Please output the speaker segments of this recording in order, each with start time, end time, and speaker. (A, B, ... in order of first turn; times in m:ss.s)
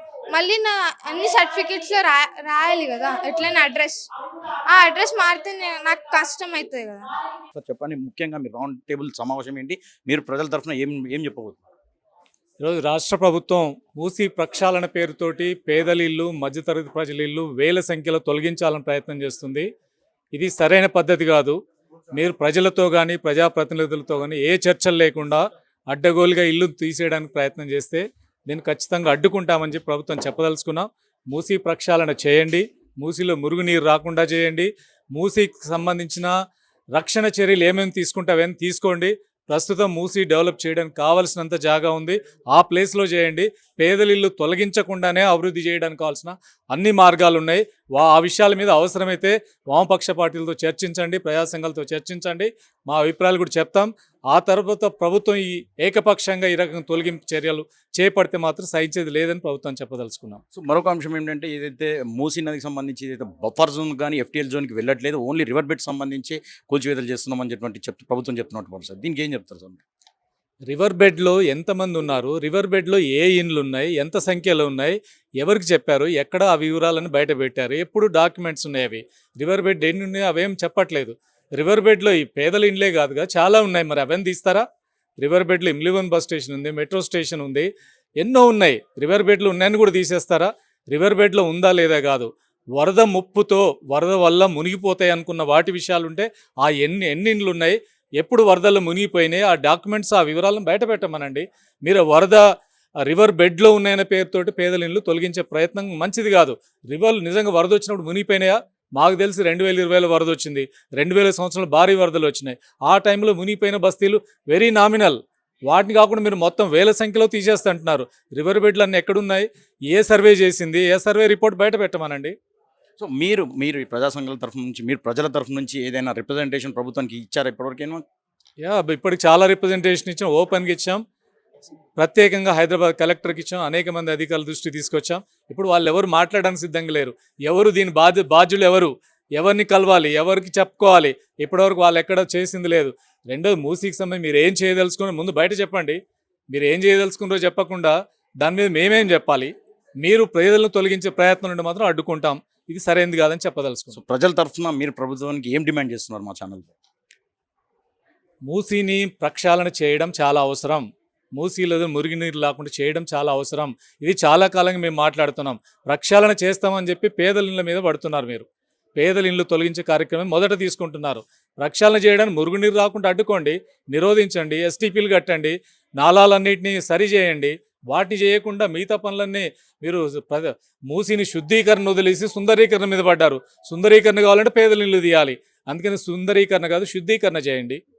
0:00.3-0:04.1 A
0:04.7-0:07.1 A
0:07.5-0:11.6 B
0:12.6-0:19.7 C
0:20.3-0:21.6 C
0:22.1-0:36.3 C
0:37.0-1:00.4 C
1:00.5-1:09.8 B
1:10.7-1:24.6 C
1:25.2-1:27.7 C
1:28.2-1:42.4 C
1:43.1-2:02.4 C
2:03.0-2:08.0 B
2:08.6-2:11.0 C
2:12.0-2:26.0 C
2:26.5-2:34.0 C
2:33.9-2:36.7 B
2:38.5-2:48.5 C
2:49.0-3:07.8 C